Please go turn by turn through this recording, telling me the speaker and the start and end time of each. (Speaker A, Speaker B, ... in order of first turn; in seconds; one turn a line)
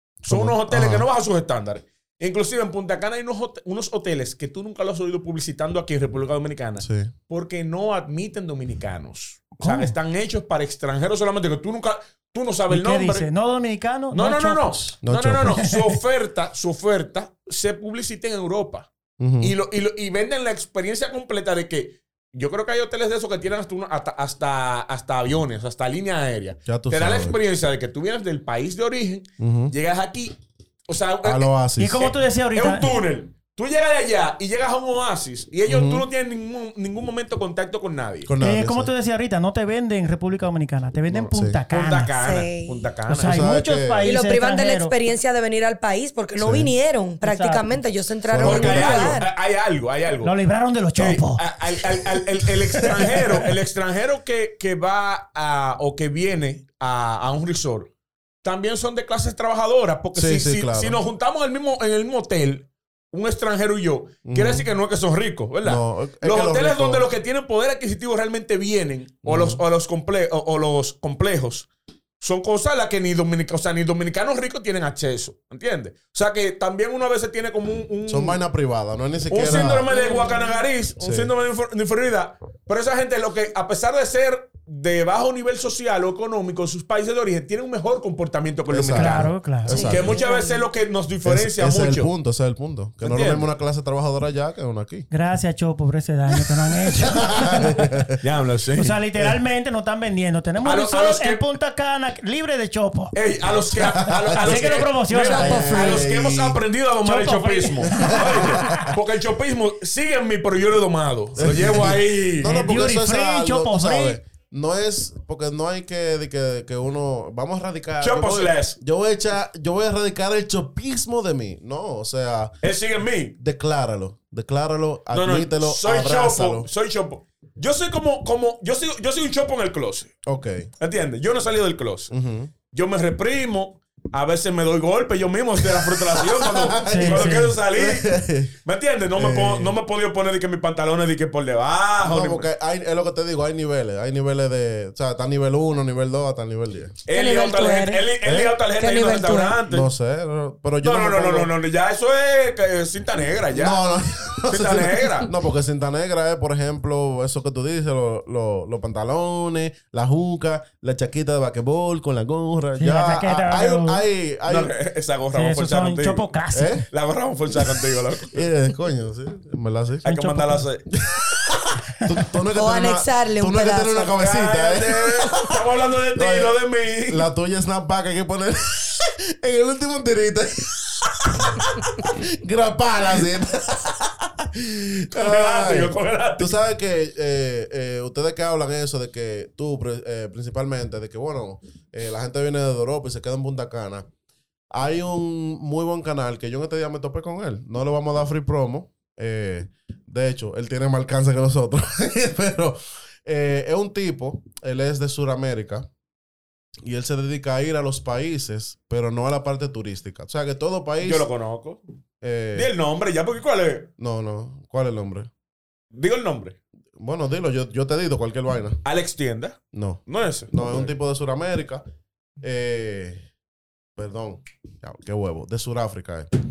Speaker A: 0.2-13.3
Speaker B: 0.3-1.1
Speaker B: 6.8-7.1
Speaker C: 9.6-9.9
Speaker C: 12.7-15.9
Speaker A: 14.1-30.4
Speaker B: 15.0-15.6
Speaker B: 19.2-19.5
Speaker B: 26.6-27.4
Speaker B: 29.4-29.7
Speaker A: 30.9-38.3
Speaker B: 31.2-32.1
Speaker C: 31.8-33.0
Speaker B: 35.6-36.1
Speaker B: 38.2-38.9
Speaker C: 38.4-42.1
Speaker B: 41.1-41.6
Speaker A: 41.7-43.5
Speaker D: 42.2-42.8
Speaker C: 43.1-44.9
Speaker B: 43.2-44.1
Speaker D: 44.0-49.3
Speaker B: 46.4-46.7
Speaker C: 47.2-47.6
Speaker B: 48.3-49.2
Speaker A: 48.4-50.3
Speaker C: 50.2-51.4
Speaker A: 51.0-57.9
Speaker A: 58.4-71.7
Speaker B: 60.1-61.0
Speaker B: 64.2-64.7
Speaker B: 65.6-67.1
Speaker B: 69.2-69.6
Speaker A: 72.2-78.4
Speaker B: 78.1-79.9
Speaker A: 79.3-92.1
Speaker D: 79.9-80.6
Speaker B: 81.0-81.3
Speaker B: 88.7-90.2
Speaker C: 88.9-89.8
Speaker D: 89.7-90.6
Speaker B: 91.2-95.1
Speaker A: 93.0-93.5
Speaker C: 95.1-98.0
Speaker B: 96.9-98.2
Speaker A: 98.2-99.4
Speaker C: 98.8-103.2
Speaker A: 100.6-101.4
Speaker A: 103.1-112.6
Speaker B: 103.8-106.6
Speaker C: 104.3-105.9
Speaker D: 105.2-106.0
Speaker C: 107.0-108.9
Speaker B: 107.9-109.0
Speaker B: 111.3-122.5
Speaker C: 112.4-114.2
Speaker A: 118.0-118.8
Speaker A: 122.6-123.3
Speaker B: 123.4-126.7
Speaker A: 125.1-130.1
Speaker B: 130.2-130.7
Speaker A: 130.8-132.1
Speaker B: 132.1-132.5
Speaker A: 132.7-142.5
Speaker B: 135.8-138.5
Speaker C: 136.9-137.5
Speaker B: 139.1-139.8
Speaker B: 142.0-147.0
Speaker A: 147.1-149.9
Speaker D: 147.1-149.6
Speaker B: 148.2-148.6
Speaker B: 149.7-151.5
Speaker A: 150.8-153.8
Speaker B: 153.5-164.7
Speaker A: 154.5-155.3
Speaker C: 162.8-164.0
Speaker A: 164.5-166.2
Speaker C: 165.3-166.8
Speaker B: 166.5-166.8
Speaker A: 166.9-168.4
Speaker B: 168.3-170.0
Speaker A: 170.0-170.8
Speaker C: 170.0-170.7
Speaker B: 171.0-176.6
Speaker D: 172.5-174.2
Speaker A: 174.2-177.3
Speaker B: 177.1-194.1
Speaker A: 185.1-186.6
Speaker B: 194.7-205.9
Speaker B: 206.8-211.3
Speaker A: 211.0-211.8
Speaker B: 212.2-212.7
Speaker A: 212.5-213.9
Speaker B: 214.0-215.3
Speaker A: 215.9-216.6
Speaker B: 217.0-218.8
Speaker A: 218.8-220.9
Speaker B: 219.7-221.8
Speaker B: 222.4-223.2
Speaker B: 223.9-226.3